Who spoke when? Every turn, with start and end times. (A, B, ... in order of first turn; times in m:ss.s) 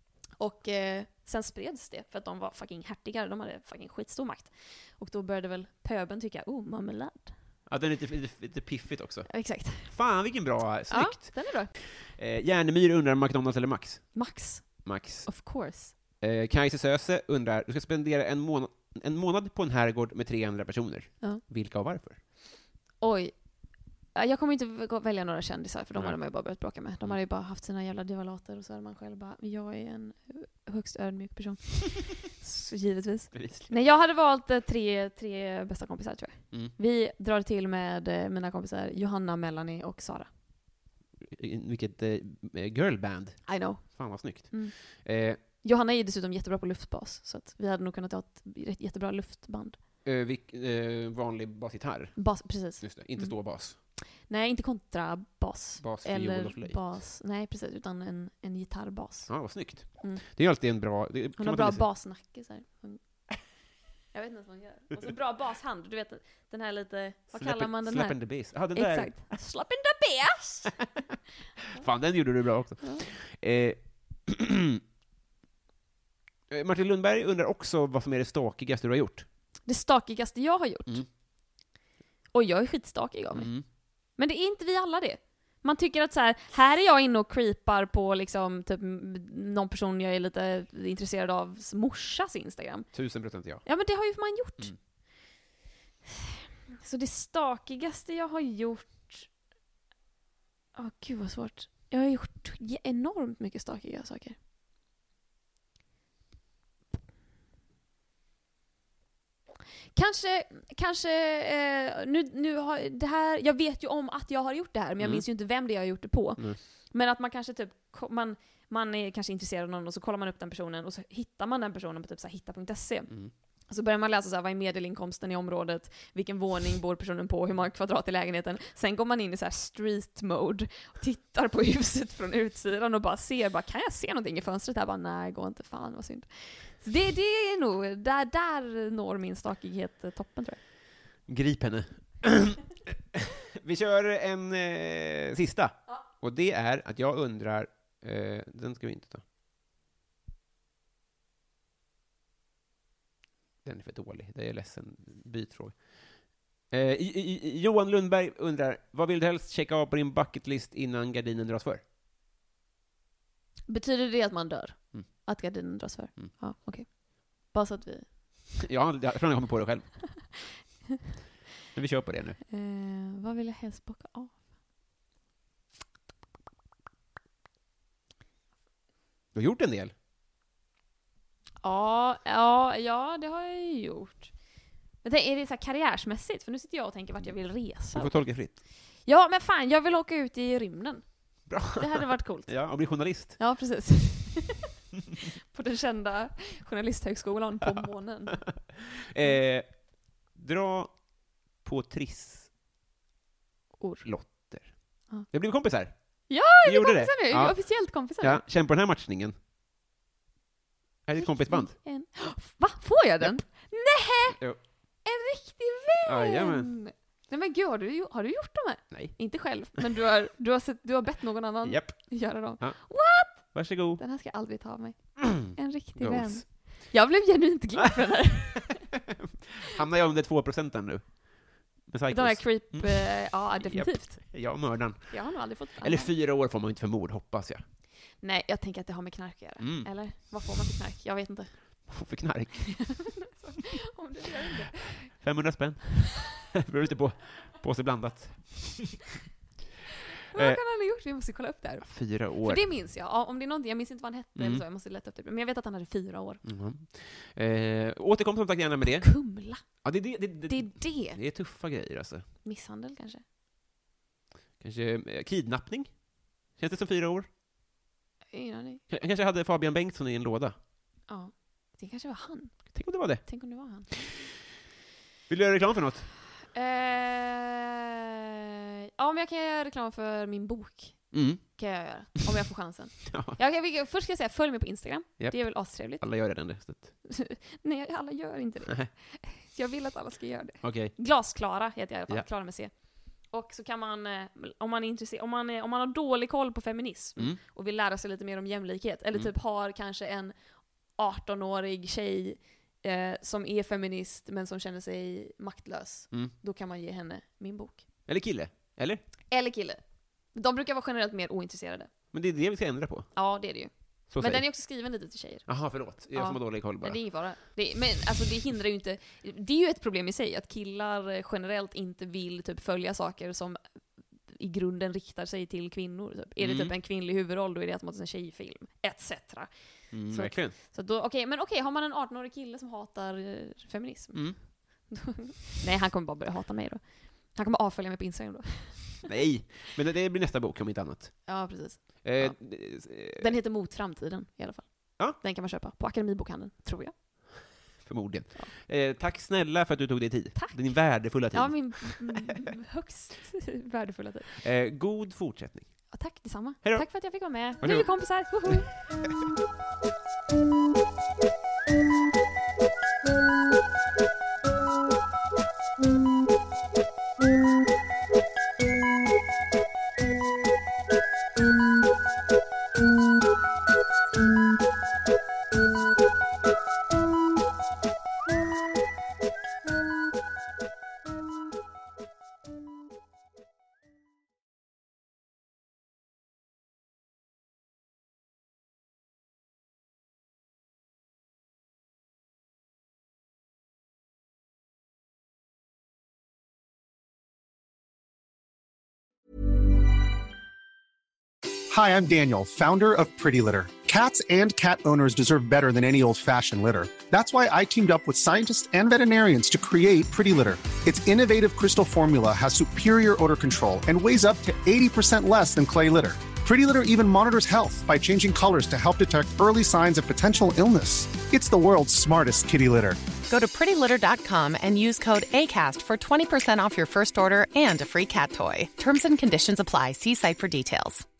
0:00.4-0:07.4 A
0:07.7-0:22.2 B
0:09.3-0:10.2 A
0:10.9-0:11.7 A
0:14.1-0:15.9 A
0:23.0-0:40.3 A
0:25.9-0:27.2 B
0:33.3-0:33.7 B
0:41.2-0:45.4 B
0:43.5-0:49.8 A
0:50.0-0:53.8 B
0:52.2-1:00.2 A
0:55.8-0:56.9 B
0:59.3-1:01.8 B
1:01.4-1:03.3 A
1:04.1-1:10.9 A
1:07.3-1:09.4 B
1:11.7-1:14.8 B
1:12.8-1:13.0 A
1:16.5-1:19.3 B
1:19.6-1:21.0 A
1:22.3-1:32.9 A
1:23.3-1:23.6 B
1:32.9-1:33.7 B
1:33.6-1:34.7 A
1:36.8-1:39.3 A
1:40.7-1:44.4 A
1:49.9-2:03.1 A
1:55.0-1:55.3 B
2:03.7-2:20.6 A
2:21.2-2:29.2 B
2:33.6-2:41.8 B
2:43.7-2:48.3 A
2:48.6-2:50.4 B
2:51.7-2:52.4 B
2:52.5-2:54.4 A
2:59.3-2:59.9 B
3:01.6-3:04.3 A
3:05.0-3:14.7 A
3:07.9-3:08.6 B
3:11.4-3:13.4 B
3:15.5-3:18.6 A
3:18.6-3:22.5 B
3:23.8-3:24.5 A
3:24.0-3:29.3 B
3:26.3-3:28.4 A
3:31.0-3:31.8 B
3:31.2-3:34.4 A
3:33.2-3:33.7 B
3:34.3-3:34.6 B
3:35.0-3:48.8 A
3:36.0-3:36.8 B
3:38.9-3:39.3 B
3:41.6-3:44.0 B
3:45.2-3:46.9 B
3:49.5-3:57.6 B
3:52.1-3:56.1 A
3:58.2-4:01.9 A
3:59.6-4:00.2 B
4:01.9-4:03.3 B
4:02.9-4:05.1 A
4:04.9-4:09.0 B
4:10.3-4:16.4 A
4:10.3-4:10.6 B
4:11.8-4:12.7 B
4:14.4-4:14.6 B
4:16.4-4:22.2 B
4:18.8-4:21.2 A
4:22.4-4:23.2 A
4:24.6-4:27.3 B
4:28.3-4:28.8 A
4:28.9-4:30.6 B
4:31.1-4:33.9 A
4:32.7-4:33.9 B
4:35.3-4:36.1 B
4:36.5-4:37.7 A
4:39.0-4:46.4 A
4:41.1-4:41.6 B
4:43.0-4:43.4 B
4:45.2-4:47.0 B
4:47.0-5:07.8 A
4:48.6-4:48.9 B
4:50.6-4:51.0 B
5:08.1-5:09.0 B
5:09.3-5:11.9 A
5:12.1-5:13.1 B
5:13.1-5:39.0 A
5:14.1-5:14.5 B
5:15.5-5:17.0 B
5:26.4-5:26.7 B
5:29.9-5:30.6 B
5:34.1-5:34.4 B
5:39.0-5:41.4 B
5:41.3-5:47.5 A
5:42.0-5:43.3 B
5:47.8-5:52.1 B
5:50.3-5:54.4 A
5:54.4-5:56.0 B
5:55.9-5:58.8 A
5:56.6-5:58.9 B
6:41.7-7:03.0 C
7:03.3-7:11.0 D